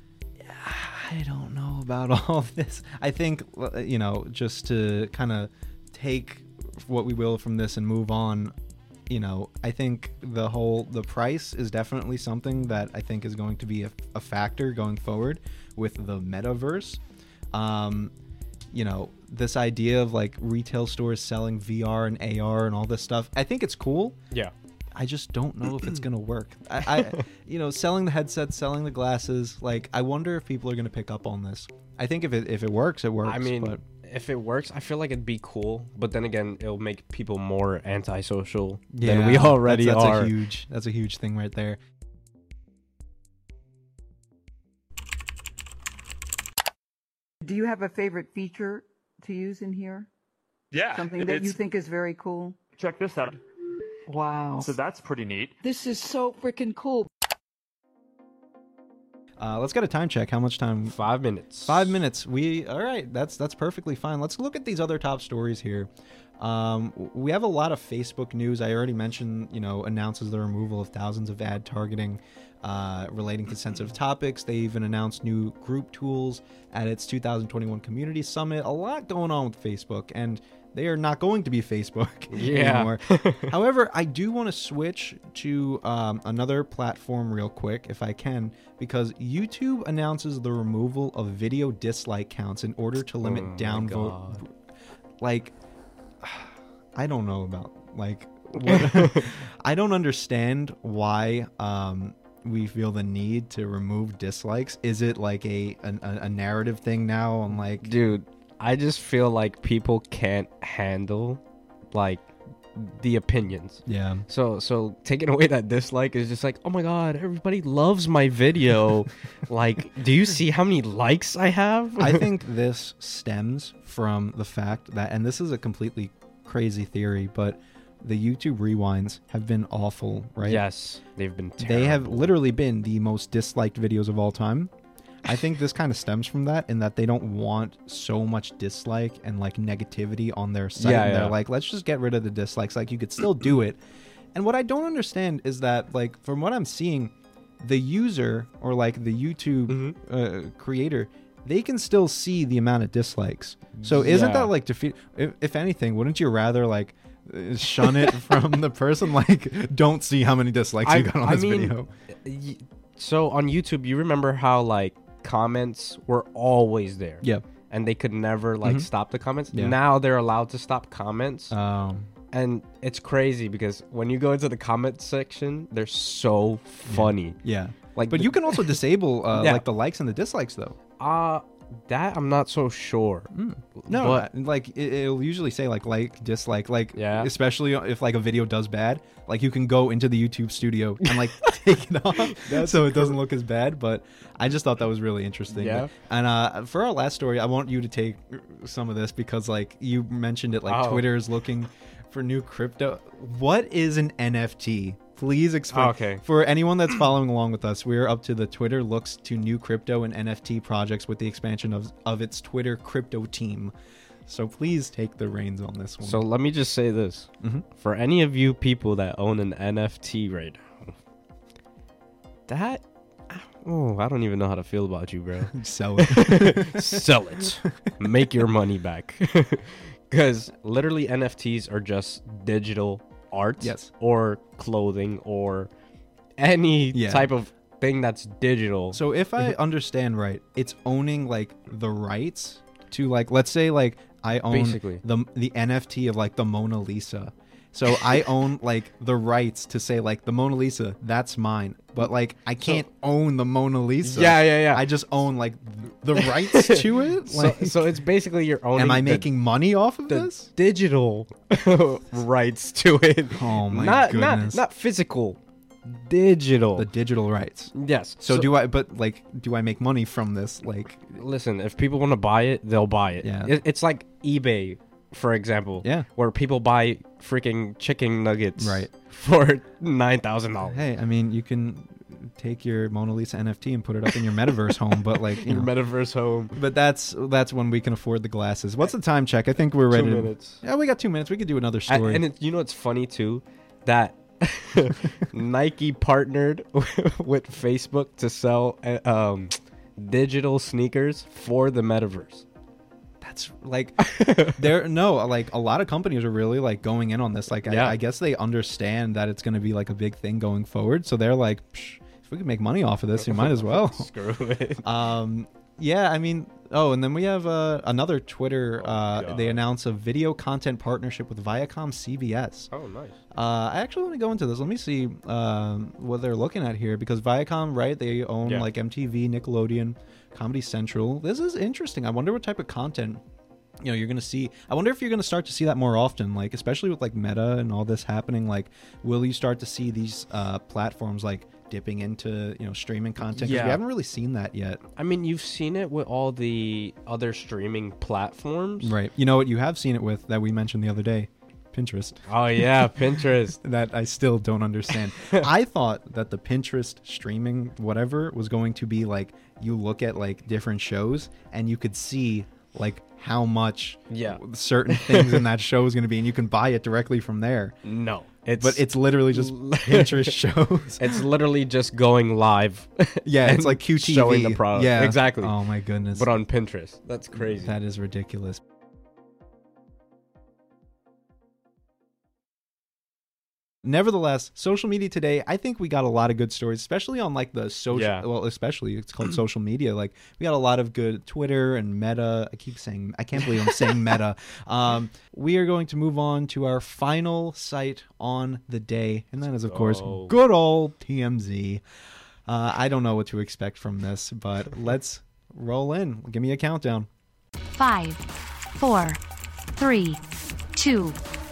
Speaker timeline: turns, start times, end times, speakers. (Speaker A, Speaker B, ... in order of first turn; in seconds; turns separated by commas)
Speaker A: 0.4-8.5, Speaker A: 9.1-17.0, Speaker A: 17.5-18.1, Speaker A: 18.7-24.2, Speaker A: 24.9-33.8, Speaker B: 33.2-40.3, Speaker A: 38.9-41.8, Speaker C: 47.4-50.1, Speaker D: 50.7-51.6, Speaker C: 50.9-52.6, Speaker D: 52.8-53.4, Speaker C: 54.1-54.7, Speaker D: 54.6-55.5, Speaker C: 55.6-57.1, Speaker A: 59.4-61.0, Speaker B: 60.9-62.0, Speaker A: 61.6-94.5, Speaker B: 82.3-83.5, Speaker B: 93.2-94.4, Speaker A: 95.2-95.5, Speaker A: 96.2-107.9, Speaker B: 98.6-99.3, Speaker B: 107.8-122.3, Speaker A: 113.8-114.2, Speaker A: 122.0-130.6, Speaker B: 130.4-132.4, Speaker A: 131.6-134.7, Speaker A: 135.2-143.8, Speaker B: 140.8-141.4, Speaker A: 144.3-161.9, Speaker B: 149.7-150.0, Speaker B: 153.8-154.5, Speaker B: 160.8-171.5, Speaker A: 168.6-168.9, Speaker A: 169.5-169.8, Speaker A: 171.5-172.1, Speaker B: 172.3-177.4, Speaker A: 176.9-180.8, Speaker B: 177.9-178.8, Speaker B: 179.3-179.6, Speaker B: 181.0-184.3, Speaker A: 183.3-213.7, Speaker B: 186.9-187.3, Speaker B: 191.0-191.6, Speaker B: 192.1-193.2, Speaker B: 195.5-195.9, Speaker B: 200.7-201.1, Speaker B: 205.7-206.2, Speaker A: 214.2-216.2, Speaker B: 216.0-220.9, Speaker B: 222.5-235.7, Speaker A: 225.5-227.9, Speaker A: 233.6-233.9, Speaker B: 236.4-239.0, Speaker A: 236.9-237.3, Speaker A: 238.9-257.8, Speaker B: 244.5-245.0, Speaker B: 252.6-252.8, Speaker B: 254.0-254.9, Speaker B: 256.1-259.3, Speaker A: 258.7-260.5, Speaker B: 260.1-266.9, Speaker A: 263.3-264.6, Speaker A: 266.8-271.1, Speaker B: 267.7-268.5, Speaker B: 271.1-280.8, Speaker A: 273.2-273.5, Speaker A: 278.6-278.9, Speaker A: 280.6-285.7, Speaker B: 285.0-286.6, Speaker A: 286.5-292.2, Speaker B: 289.9-290.6, Speaker B: 291.9-302.4, Speaker A: 303.2-314.1, Speaker B: 304.0-304.6, Speaker B: 307.6-308.0, Speaker B: 313.2-314.9, Speaker A: 314.8-322.7, Speaker B: 318.8-319.6, Speaker B: 322.7-323.2, Speaker A: 323.3-333.2, Speaker A: 333.8-344.8, Speaker B: 343.3-343.8, Speaker B: 345.0-348.9, Speaker A: 348.8-352.9, Speaker B: 352.3-353.6, Speaker A: 353.6-367.8, Speaker B: 355.2-355.4, Speaker B: 364.1-365.4, Speaker B: 367.8-370.4, Speaker A: 368.6-371.2, Speaker B: 371.0-375.5, Speaker A: 373.2-376.3, Speaker B: 376.1-377.8, Speaker A: 377.3-378.6, Speaker A: 383.8-401.8, Speaker B: 387.9-388.3, Speaker B: 399.7-400.3, Speaker A: 402.5-407.1, Speaker E: 407.7-408.2, Speaker E: 408.8-409.2, Speaker E: 409.8-410.2, Speaker E: 410.7-411.2